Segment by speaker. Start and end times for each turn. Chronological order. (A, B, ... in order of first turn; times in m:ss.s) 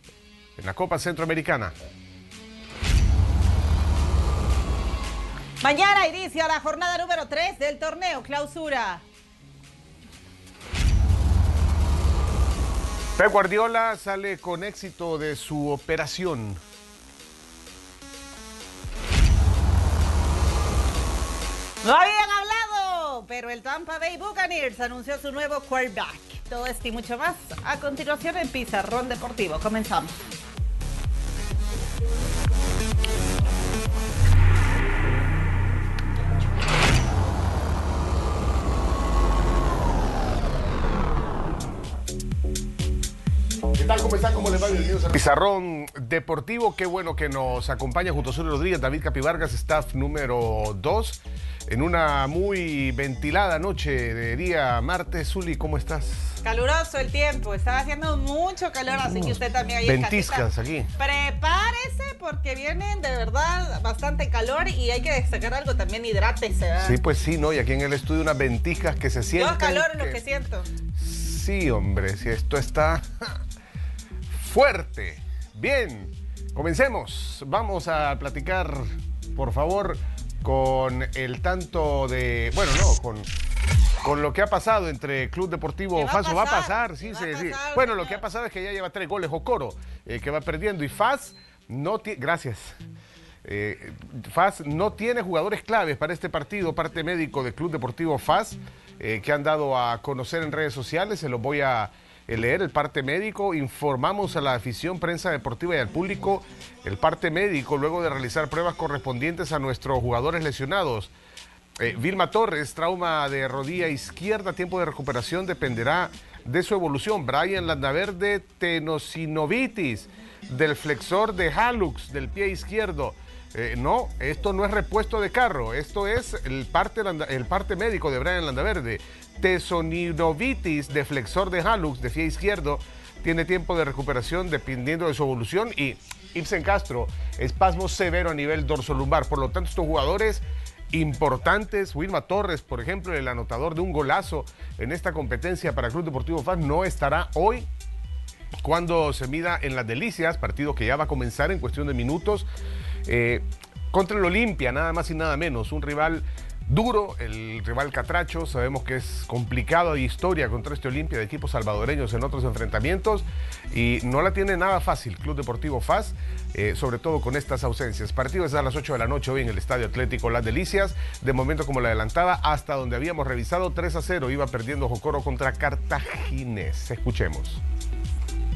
0:00.6-0:01.7 A
0:05.6-0:09.0 B
0:13.2-0:16.6 A
0:21.8-0:30.1 B
0:43.7-0:56.4 A
0:56.4-1:00.4 B
0:59.0-1:00.9 A
1:01.0-1:07.0 B
1:06.8-1:10.2 A
1:09.4-1:10.7 B
1:11.0-1:13.4 A
1:14.3-1:23.3 A
1:24.0-1:32.8 A
1:25.9-1:28.2 B
1:33.4-1:51.1 A
1:51.8-2:27.7 A
2:28.6-2:32.5 A
2:33.0-2:57.6 A